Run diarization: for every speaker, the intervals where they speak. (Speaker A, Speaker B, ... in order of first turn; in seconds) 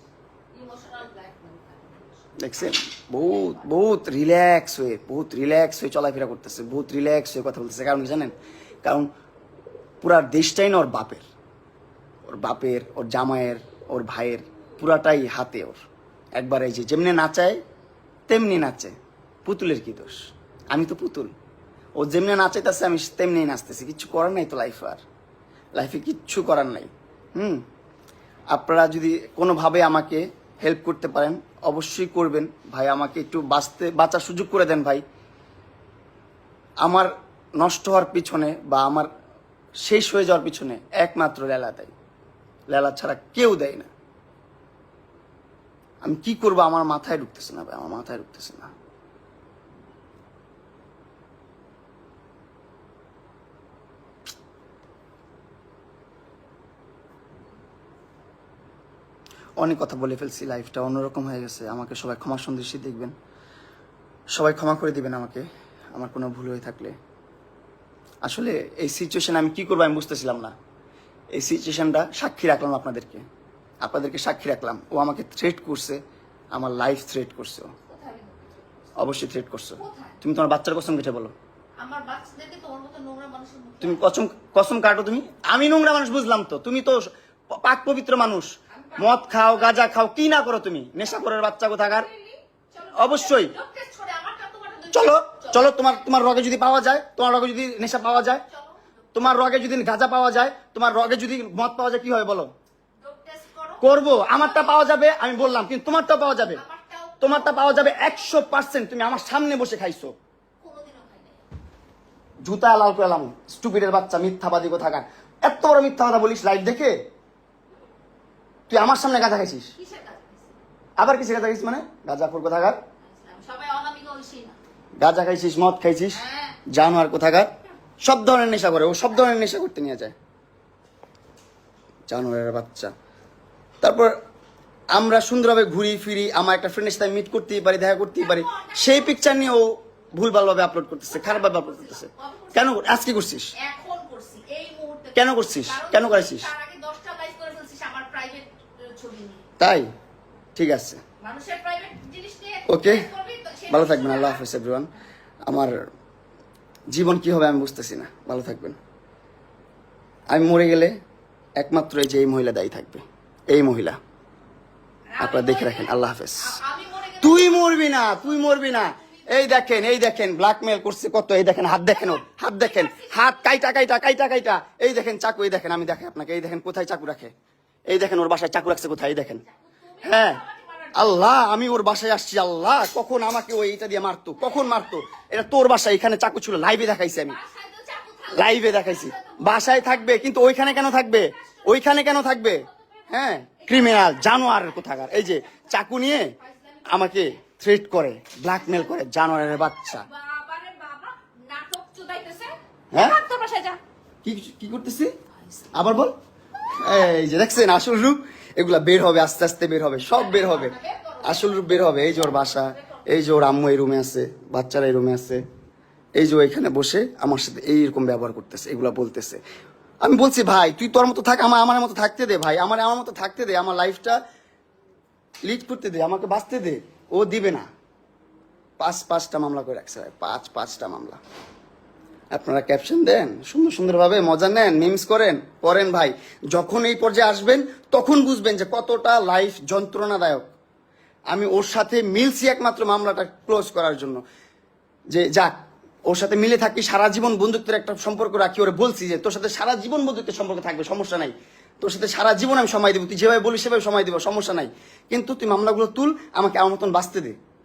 Speaker A: 0.5-2.4, 3.1-3.7, 77.8-79.0, 79.8-80.2, 81.8-84.1, 88.7-89.9, 91.8-96.2, 98.2-99.3, 103.0-104.9, 106.3-108.6, 110.6-111.5, 119.8-120.6, 123.0-124.6, 126.1-126.6, 138.2-139.4, 141.0-142.8, 143.6-149.4, 151.2-154.4, 165.1-169.6, 171.9-173.5, 179.3-181.3, 184.4-184.8, 187.3-197.4, 198.5-199.0, 199.7-203.8, 205.4-205.8, 210.1-213.1
Speaker B: 2.4-9.1, 10.0-11.2, 12.3-15.8, 16.4-17.6, 18.3-18.9, 19.5-21.3, 22.0-25.0, 25.8-27.6, 28.5-35.0, 36.8-39.1, 39.9-41.9, 42.7-43.9, 46.0-48.7, 59.6-63.1, 64.3-67.0, 68.2-70.5, 71.3-73.2, 73.8-76.0, 76.5-77.7, 79.0-81.3, 83.8-92.1, 93.0-93.5, 94.9-98.4, 99.2-102.5, 103.8-106.6, 107.2-110.1, 112.4-117.0, 118.7-119.7, 121.0-122.8, 125.0-127.5, 128.0-130.1, 132.1-132.9, 133.8-134.1, 134.9-143.5, 145.2-146.5, 149.6-149.9, 150.6-151.0, 152.7-153.1, 153.7-154.9, 155.5-155.7, 156.9-158.8, 160.3-161.0, 161.6-164.0, 165.2-166.6, 167.2-177.3, 177.9-179.4, 180.0-180.4, 180.9-187.4, 188.3-196.3, 196.9-200.1, 202.9-203.2, 204.2-205.2, 205.7-206.2, 206.8-215.4, 216.2-219.4, 220.0-224.2, 225.4-227.7, 228.8-231.2, 232.3-240.5, 241.3-244.2, 245.1-245.5, 246.1-257.4